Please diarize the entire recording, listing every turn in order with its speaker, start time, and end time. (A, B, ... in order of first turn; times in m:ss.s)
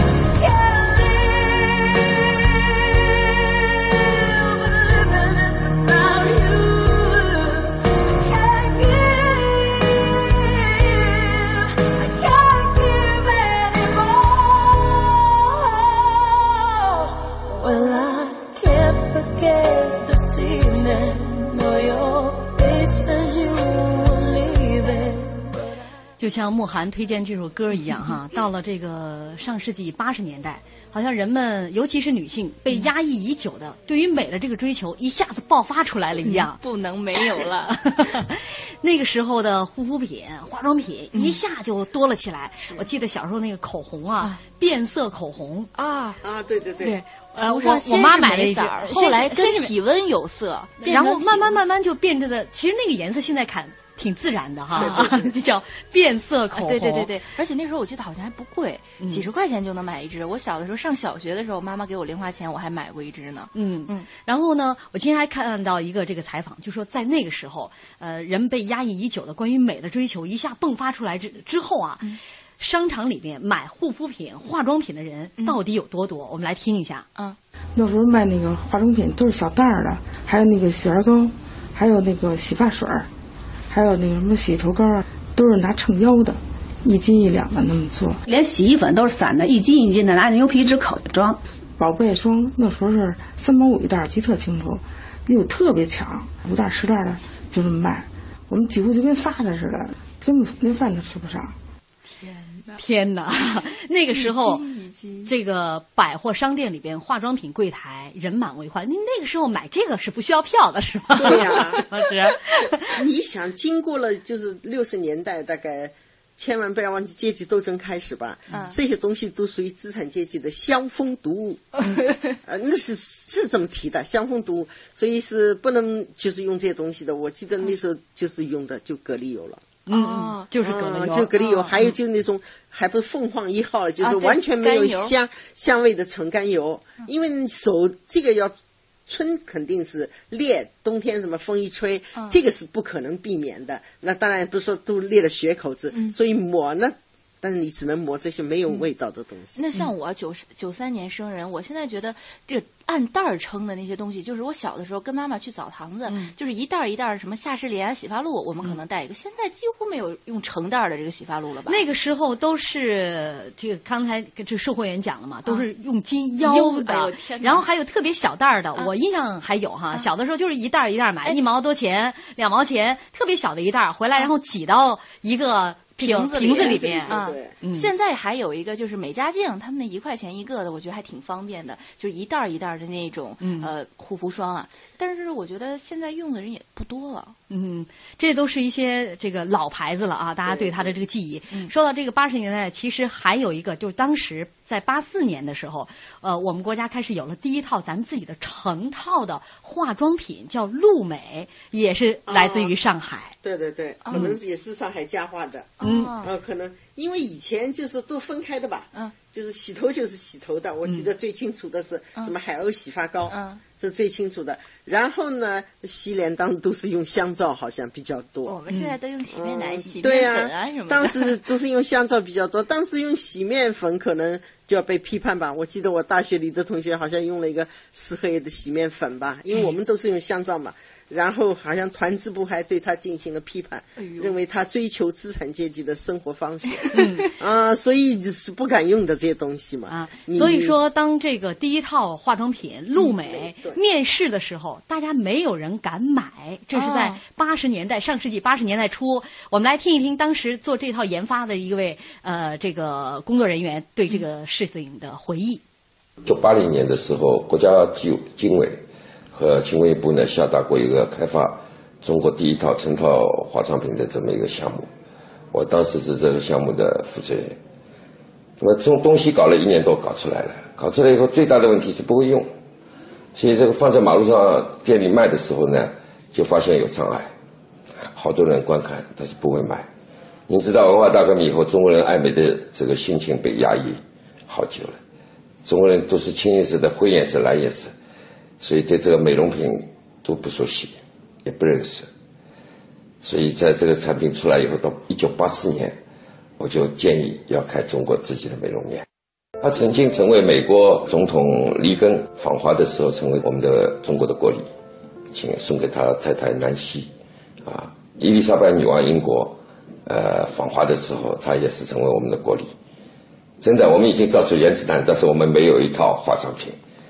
0:00.4-0:25.7 A
0:26.2-0:36.6 B
0:36.2-0:38.2 C
0:37.7-0:45.7 B
0:41.1-0:41.4 C
0:45.8-0:46.2 C
0:46.2-0:47.0 D
0:46.8-0:49.7 B
0:47.4-0:51.6 C
0:50.8-0:57.1 B
0:54.7-0:55.3 D
0:54.8-0:55.1 C
0:56.5-1:04.1 C
1:03.5-1:12.1 B
1:12.6-1:17.1 B
1:17.8-1:23.1 E
1:23.7-1:28.2 E
1:28.3-1:31.4 F
1:31.8-1:41.6 E
1:42.2-1:42.8 C
1:42.8-1:44.6 B
1:44.1-1:45.3 C
1:45.3-1:52.8 B
1:51.2-1:51.8 D
1:53.0-2:01.8 D
2:02.0-2:02.2 C
2:02.4-2:09.6 D
2:09.9-2:11.3 B
2:09.9-2:10.5 C
2:10.6-2:18.6 D
2:11.4-2:11.9 C
2:14.0-2:15.1 C
2:19.1-2:29.6 D
2:29.6-2:41.9 C
2:41.7-2:57.9 B
2:46.4-2:47.6 C
2:56.0-3:07.4 C
2:56.4-2:57.5 D
3:03.4-3:03.7 B
3:07.5-3:23.4 B
3:10.5-3:10.9 D
3:22.3-3:22.7 D
3:23.4-3:38.6 D
3:24.1-3:24.3 C
3:25.8-3:26.3 C
3:25.8-3:26.1 B
3:33.3-3:33.6 C
3:38.5-3:41.4 C
3:39.3-4:00.8 D
3:54.0-3:54.4 C
3:56.9-3:57.3 B
3:59.9-4:15.6 B
4:03.1-4:03.8 D
4:06.7-4:07.2 C
4:16.2-4:18.8 G
4:19.3-4:24.9 G
4:25.5-4:27.6 G
4:28.6-4:32.5 G
4:33.4-4:37.3 G
4:38.0-4:39.9 G
4:40.5-4:45.0 G
4:45.6-4:47.9 G
4:48.6-4:52.1 G
4:53.2-4:56.0 G
4:56.6-4:59.0 G
4:59.6-5:04.7 G
5:05.3-5:07.1 G
5:07.6-5:12.7 G
5:13.6-5:16.8 G